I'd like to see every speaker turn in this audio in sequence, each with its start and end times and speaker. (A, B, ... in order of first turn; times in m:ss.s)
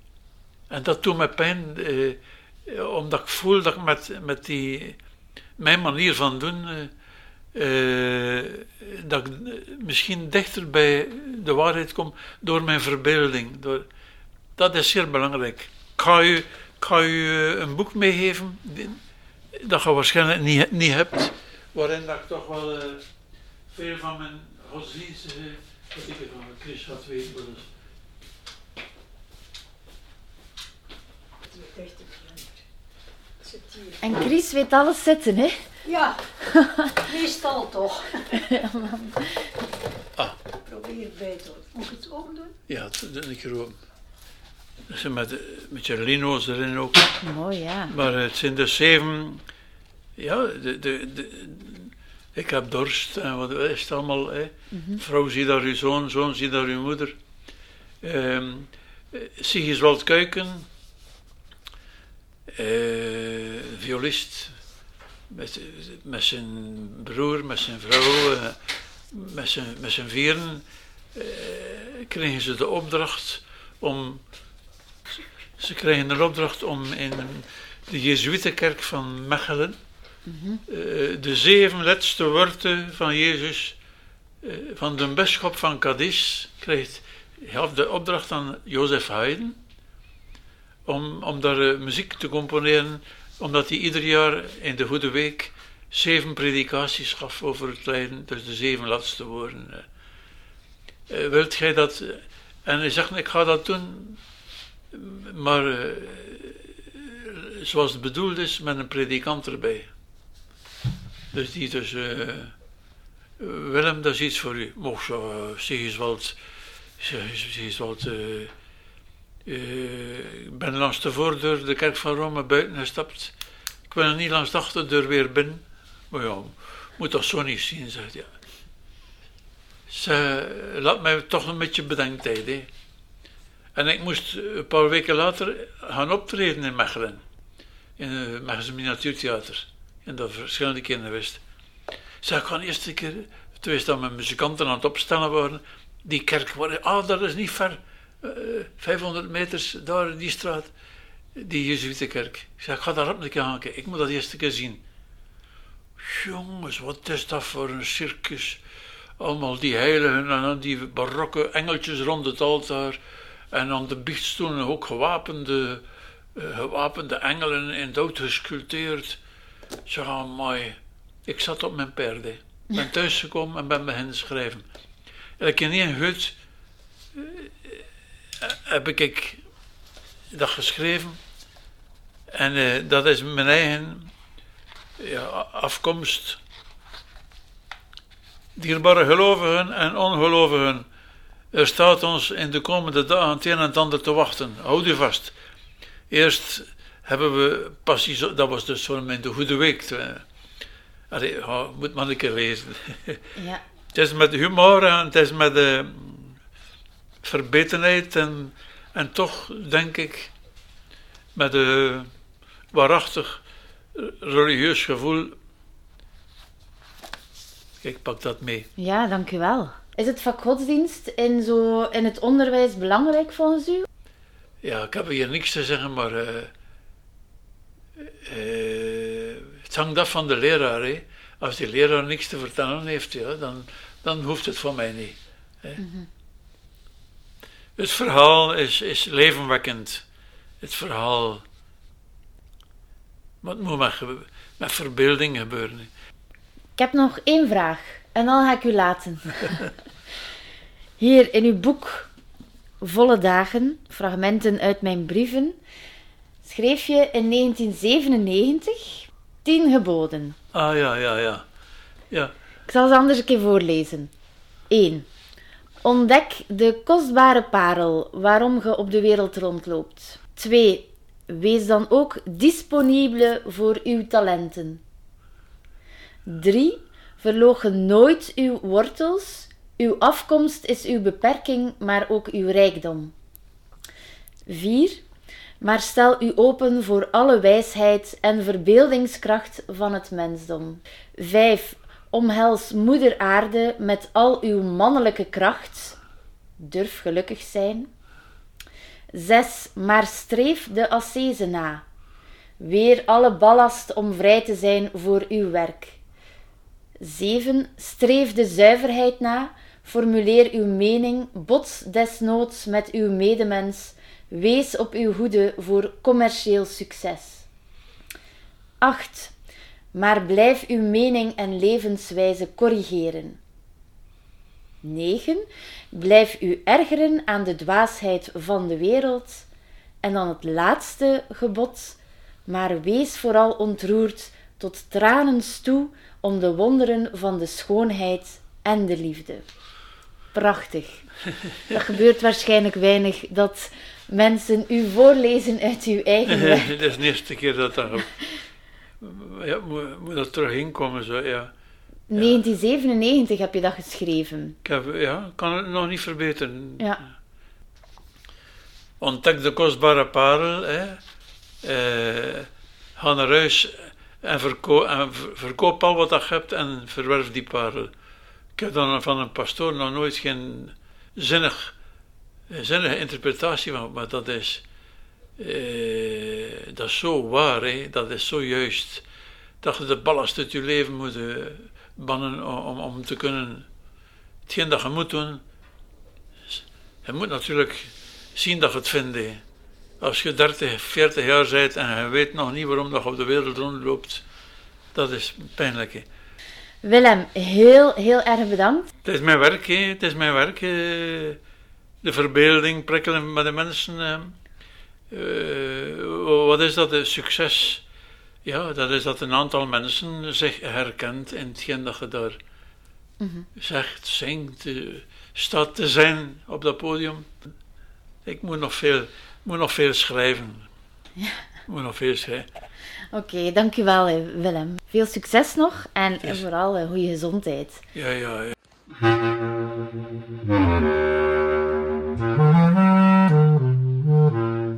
0:00.7-0:05.0 A
0:05.6-0:06.9 A
0:07.5-0:13.9 A
0:14.6-0:19.0 A
0:19.6-0:23.0 A
0:23.7-0:27.7 A
0:31.5-0:32.5 B
0:33.4-0:34.1 B
0:34.0-0:35.6 C
0:35.8-0:36.2 B
0:36.4-0:37.0 C
0:36.9-0:38.6 B
0:38.3-0:39.3 C
0:40.6-0:42.5 B
0:42.7-0:43.7 A
0:44.9-0:47.1 A
0:47.2-0:47.9 C
0:47.9-0:49.4 A
0:50.2-0:57.2 A
0:54.7-0:55.0 C
0:58.0-1:00.7 A
1:02.5-1:04.5 A
1:05.3-1:08.6 A
1:09.1-1:14.2 A
1:15.6-1:19.8 A
1:20.3-1:20.6 C
1:20.7-1:23.8 A
1:24.4-1:29.6 A
1:30.9-1:39.9 A
1:41.1-1:44.2 A
1:44.9-1:49.9 A
1:51.3-1:52.5 A
1:53.4-1:56.4 A
1:57.0-1:58.5 A
1:59.4-2:03.3 A
2:03.9-2:08.3 A
2:09.9-2:12.7 A
2:13.7-2:17.2 A
2:18.0-2:21.4 A
2:22.2-2:30.7 A
2:31.4-2:34.8 A
2:36.0-2:38.6 A
2:39.2-2:43.0 A
2:43.5-2:45.8 A
2:46.4-2:49.2 A
2:49.9-2:54.6 A
2:55.4-2:56.4 A
2:57.1-2:57.8 A
2:58.4-2:59.4 A
3:00.3-3:01.2 A
3:02.3-3:04.1 A
3:05.0-3:06.4 A
3:08.6-3:10.9 A
3:11.5-3:15.4 A
3:16.1-3:20.2 A
3:21.1-3:23.2 A
3:23.4-3:23.6 C
3:23.9-3:26.4 A
3:27.2-3:30.3 A
3:31.4-3:32.1 A
3:32.7-3:33.4 A
3:33.9-3:35.4 A
3:37.8-3:38.7 A
3:38.8-3:43.9 C
3:44.6-3:46.5 A
3:48.0-3:55.8 A
3:55.8-3:56.1 C
3:57.8-4:00.0 A
4:00.6-4:01.4 A
4:03.4-4:05.9 A
4:06.8-4:09.7 C
4:11.0-4:12.1 C
4:12.8-4:15.6 C
4:16.4-4:20.4 C
4:20.5-4:21.4 A
4:22.7-4:24.1 C
4:24.7-4:25.1 C
4:25.8-4:34.8 C
4:36.3-4:43.1 C
4:44.5-4:45.0 C
4:45.6-4:56.0 C
4:56.6-4:57.9 C
4:59.1-5:01.8 C
5:02.6-5:06.0 C
5:07.0-5:17.4 C
5:18.8-5:19.3 C
5:19.9-5:23.4 C
5:24.8-5:29.5 C
5:30.0-5:39.4 C
5:40.3-5:41.1 C
5:41.7-5:46.7 C
5:46.3-5:48.1 A
5:49.0-5:51.5 A
5:52.1-5:54.6 C
5:54.6-5:57.0 A
5:59.0-6:01.0 A
6:01.6-6:07.9 A
6:08.6-6:11.7 A
6:12.5-6:14.6 A
6:15.4-6:19.0 A
6:19.6-6:23.7 A
6:24.5-6:25.4 A
6:26.5-6:29.4 A
6:30.0-6:34.2 A
6:34.9-6:36.1 A
6:36.8-6:38.9 C
6:39.0-6:41.4 A
6:42.0-6:44.4 A
6:45.1-6:47.8 A
6:48.4-6:52.4 A
6:53.2-6:53.5 C
6:53.6-6:57.5 A
6:58.2-7:00.7 A
7:01.7-7:02.5 A
7:03.1-7:07.8 C
7:07.9-7:08.6 A